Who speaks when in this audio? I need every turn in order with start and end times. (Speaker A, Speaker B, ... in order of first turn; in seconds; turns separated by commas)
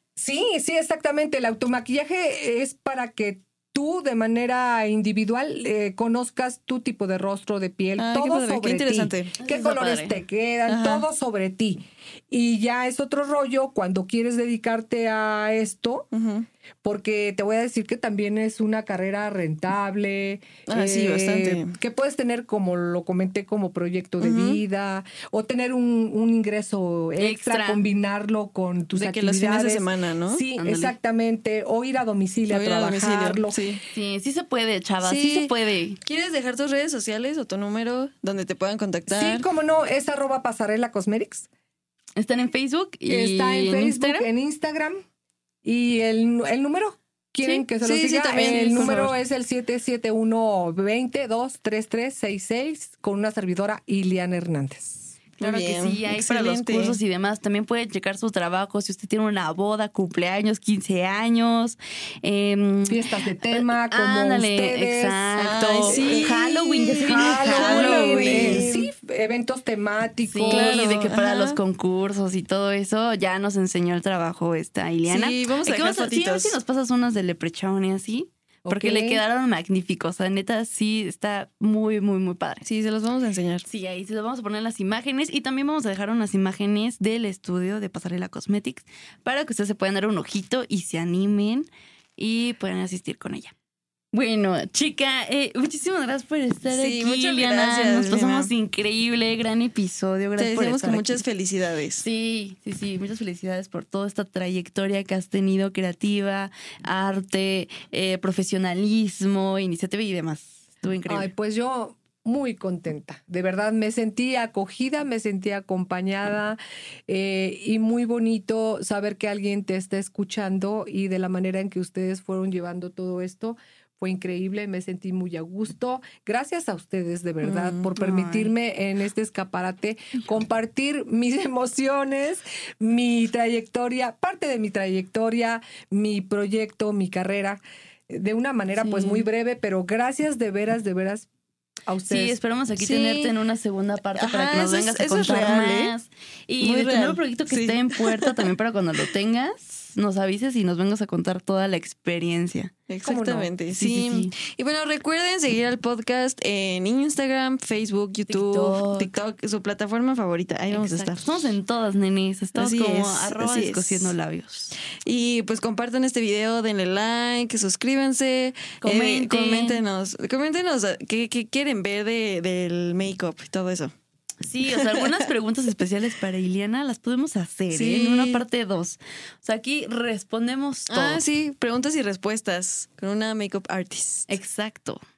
Speaker A: 0.2-16.1, Speaker B: 8.0-9.3, Speaker C: 9.4-10.2, Speaker B: 10.7-11.1, Speaker B: 16.1-16.5, Speaker A: 16.8-33.6, Speaker B: 20.7-21.8, Speaker B: 24.2-24.6, Speaker C: 27.2-27.8, Speaker B: 28.9-30.4, Speaker C: 30.6-30.9, Speaker B: 32.5-33.8, Speaker C: 33.9-36.0, Speaker B: 35.0-39.5, Speaker A: 39.1-41.5, Speaker C: 42.2-44.3, Speaker A: 43.1-45.0, Speaker A: 45.6-55.1, Speaker B: 47.5-49.1, Speaker B: 55.4-57.0, Speaker C: 55.4-68.7, Speaker A: 62.9-66.3, Speaker B: 65.4-68.9, Speaker A: 67.0-71.0, Speaker C: 70.3-82.6, Speaker B: 70.5-71.6, Speaker B: 75.1-76.6, Speaker A: 78.7-79.2, Speaker B: 82.6-83.7, Speaker C: 83.7-93.5, Speaker C: 94.1-101.2, Speaker B: 96.7-98.5, Speaker B: 100.4-102.1, Speaker C: 102.0-111.3, Speaker A: 111.1-141.3, Speaker B: 127.5-127.9, Speaker C: 128.0-128.5, Speaker C: 138.8-139.3, Speaker A: 141.9-142.4, Speaker C: 142.1-152.7, Speaker B: 142.8-143.3, Speaker B: 144.2-145.9, Speaker B: 146.6-148.5, Speaker B: 152.9-161.5, Speaker A: 153.0-153.5, Speaker C: 153.7-154.3, Speaker C: 158.3-159.2, Speaker C: 160.7-164.8, Speaker B: 162.6-164.1, Speaker B: 164.9-173.9, Speaker C: 168.8-169.8, Speaker C: 174.4-181.2, Speaker B: 177.7-178.4, Speaker B: 180.9-184.3, Speaker C: 184.3-185.0